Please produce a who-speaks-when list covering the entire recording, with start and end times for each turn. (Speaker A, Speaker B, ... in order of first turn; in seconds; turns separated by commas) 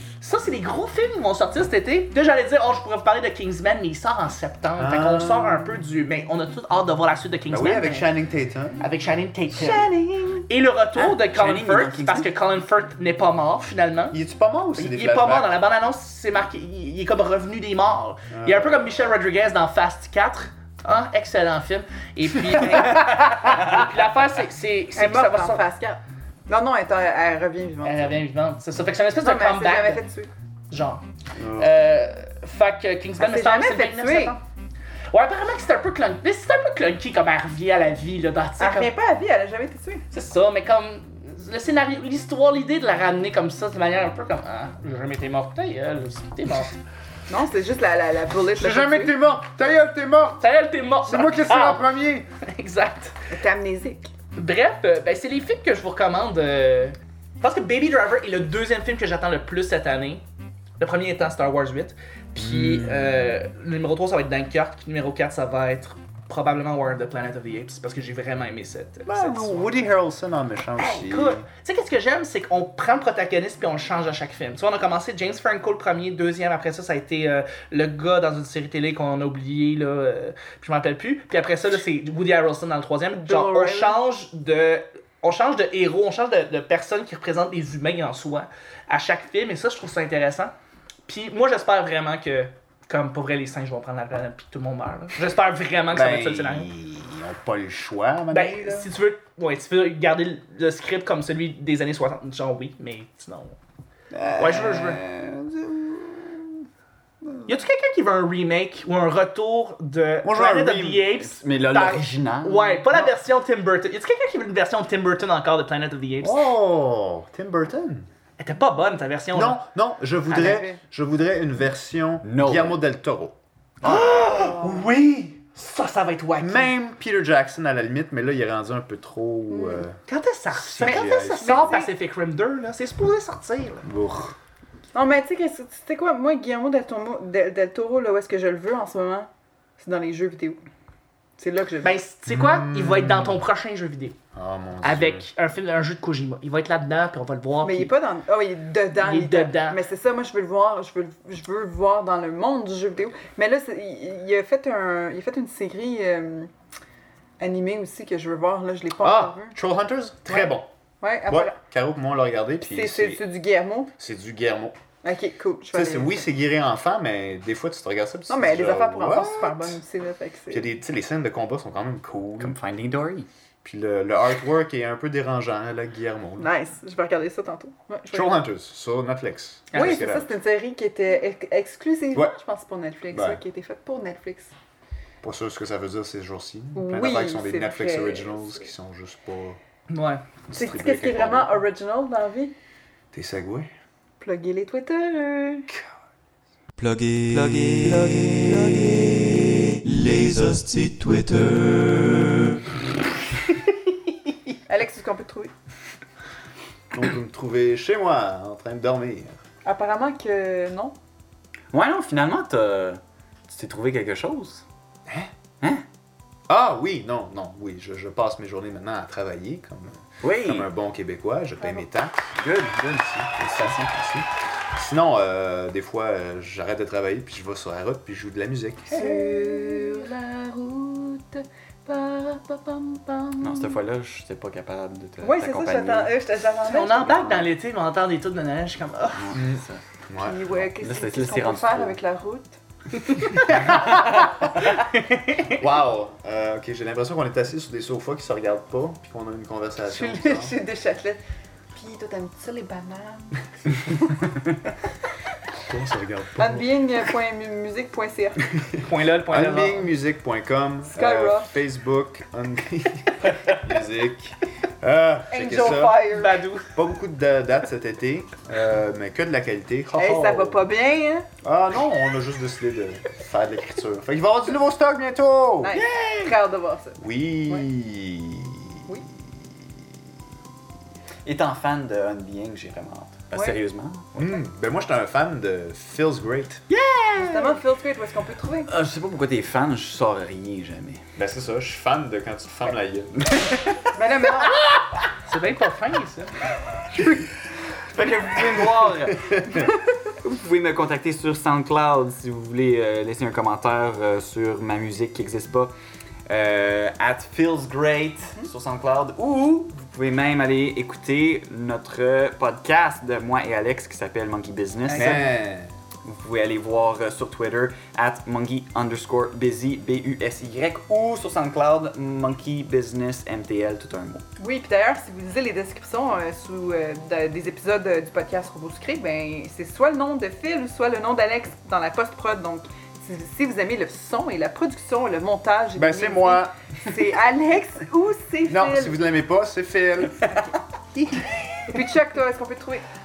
Speaker A: 0.2-8.1, Speaker B: 4.8-5.8, Speaker B: 7.5-8.8, Speaker A: 8.8-9.9, Speaker C: 9.5-10.5, Speaker A: 10.5-14.2, Speaker D: 11.0-12.3, Speaker B: 14.1-15.5, Speaker A: 14.8-25.6, Speaker B: 18.3-18.9, Speaker D: 22.9-23.6, Speaker C: 24.9-28.1, Speaker A: 27.8-30.0, Speaker C: 29.2-30.3, Speaker A: 30.7-31.0, Speaker B: 31.4-31.7, Speaker A: 31.5-34.4, Speaker C: 33.2-34.4, Speaker A: 35.1-38.9, Speaker C: 38.6-40.0, Speaker A: 40.1-46.8, Speaker C: 47.3-49.1, Speaker B: 48.6-50.4, Speaker A: 50.4-51.9, Speaker B: 51.0-52.3, Speaker A: 52.4-53.1, Speaker C: 53.3-54.1, Speaker A: 54.4-60.2, Speaker A: 60.8-69.7, Speaker B: 62.4-63.1, Speaker B: 69.1-71.5, Speaker A: 70.8-90.5, Speaker C: 83.2-84.0, Speaker A: 91.1-96.7, Speaker B: 95.9-98.9, Speaker A: 98.3-103.5, Speaker B: 104.1-106.4, Speaker A: 104.4-105.0, Speaker A: 107.5-116.5, Speaker B: 110.2-111.1, Speaker D: 111.2-112.8, Speaker B: 116.2-118.1, Speaker A: 118.4-119.6, Speaker B: 119.3-124.4, Speaker A: 120.3-120.7, Speaker C: 120.3-120.8, Speaker D: 122.2-122.8, Speaker A: 123.8-126.7, Speaker C: 124.3-124.9, Speaker B: 126.4-130.0, Speaker C: 129.5-129.8, Speaker A: 130.1-133.9, Speaker B: 130.5-131.8, Speaker C: 130.8-131.9, Speaker B: 133.8-134.4, Speaker C: 134.9-140.6, Speaker C: 141.4-142.0, Speaker A: 141.8-144.2, Speaker B: 142.3-143.4, Speaker B: 144.3-145.3, Speaker A: 144.8-147.9, Speaker C: 147.6-156.5, Speaker A: 149.0-149.8, Speaker C: 157.4-159.6, Speaker B: 159.0-160.7, Speaker C: 160.3-161.6, Speaker B: 161.3-163.2, Speaker C: 162.6-163.9, Speaker B: 164.0-164.8, Speaker C: 165.0-166.3, Speaker B: 165.7-169.8, Speaker C: 168.3-170.7, Speaker B: 170.5-172.6, Speaker D: 172.4-173.3, Speaker B: 173.6-176.5, Speaker C: 176.4-178.4, Speaker B: 178.1-180.3, Speaker A: 179.7-180.0, Speaker C: 179.7-184.5, Speaker B: 183.1-183.4, Speaker B: 185.2-189.6, Speaker C: 186.8-188.7, Speaker A: 189.9-190.2, Speaker B: 190.5-191.6, Speaker C: 190.5-192.5, Speaker B: 193.1-193.7, Speaker C: 194.2-195.7, Speaker D: 196.8-198.3, Speaker E: 197.6-198.9, Speaker E: 199.9-201.9, Speaker D: 200.3-201.3, Speaker C: 204.7-205.5, Speaker B: 206.9-209.4, Speaker C: 209.7-211.0, Speaker D: 211.7-214.7, Speaker B: 216.5-222.3, Speaker D: 220.2-220.7, Speaker D: 222.3-223.9, Speaker B: 223.3-229.0, Speaker C: 228.9-233.8, Speaker D: 228.9-230.0, Speaker D: 233.4-236.1, Speaker C: 235.2-237.2, Speaker A: 236.7-239.4, Speaker D: 237.0-237.5, Speaker D: 239.1-239.8, Speaker B: 239.3-240.4, Speaker C: 240.2-242.6, Speaker D: 240.5-242.0, Speaker D: 243.5-244.4, Speaker B: 243.5-244.3, Speaker B: 245.5-250.5, Speaker C: 249.8-251.2, Speaker C: 251.7-254.2, Speaker B: 255.7-256.7, Speaker C: 256.4-258.5, Speaker B: 258.6-266.2, Speaker A: 258.8-259.9, Speaker C: 260.9-261.6, Speaker C: 265.3-266.4, Speaker A: 266.1-266.7, Speaker B: 266.7-270.7, Speaker C: 270.0-271.3, Speaker B: 271.4-275.8, Speaker C: 275.6-277.7, Speaker D: 275.7-276.4, Speaker B: 277.0-278.8, Speaker D: 281.2-284.4, Speaker B: 284.2-286.6, Speaker D: 286.7-287.6, Speaker C: 287.2-288.7, Speaker D: 288.7-291.0, Speaker B: 291.2-293.3, Speaker D: 293.2-293.9, Speaker C: 293.9-294.6, Speaker A: 295.3-296.3, Speaker D: 297.9-299.6, Speaker B: 299.1-299.7, Speaker D: 300.2-305.7, Speaker D: 306.3-315.4, Speaker A: 314.9-315.2, Speaker B: 314.9-315.7, Speaker D: 316.0-324.2, Speaker C: 324.4-339.0, Speaker B: 335.8-336.9, Speaker B: 338.5-340.4, Speaker C: 341.7-342.8